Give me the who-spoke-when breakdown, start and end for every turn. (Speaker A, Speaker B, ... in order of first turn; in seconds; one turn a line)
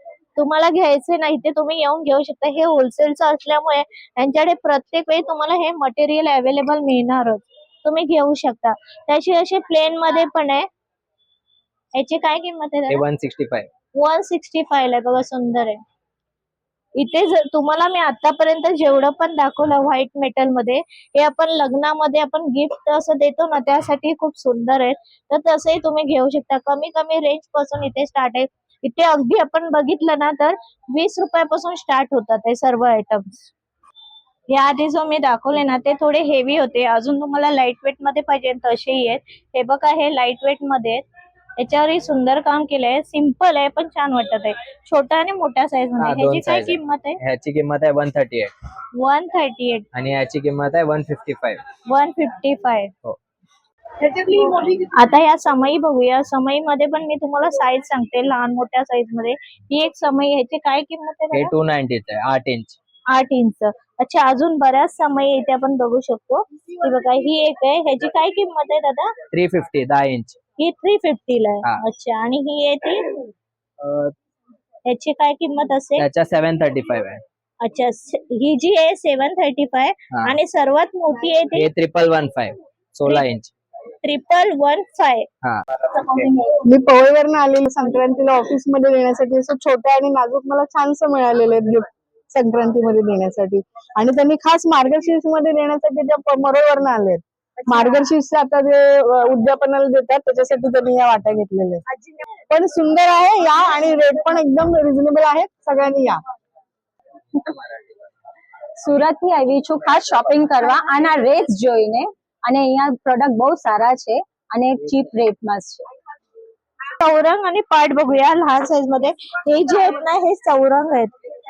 Speaker A: 0.4-10.7
Speaker A: 11.9-13.0
Speaker B: 12.9-13.7
Speaker A: 13.9-15.8
Speaker A: 17.0-33.5
Speaker A: 34.5-41.0
Speaker A: 41.6-47.2
Speaker B: 46.0-48.5
Speaker A: 49.0-49.9
Speaker B: 49.9-51.6
Speaker A: 51.9-52.9
Speaker A: 54.0-61.5
Speaker B: 61.3-62.8
Speaker A: 63.1-69.1
Speaker B: 69.3-70.4
Speaker A: 70.6-73.2
Speaker B: 73.8-74.1
Speaker A: 74.9-76.1
Speaker B: 76.0-77.2
Speaker A: 77.6-81.7
Speaker B: 80.1-80.4
Speaker B: 81.5-83.5
Speaker A: 84.0-85.3
Speaker C: 86.4-101.8
Speaker C: 102.5-106.2
Speaker B: 107.3-107.9
Speaker D: 108.8-115.9
Speaker A: 117.0-121.1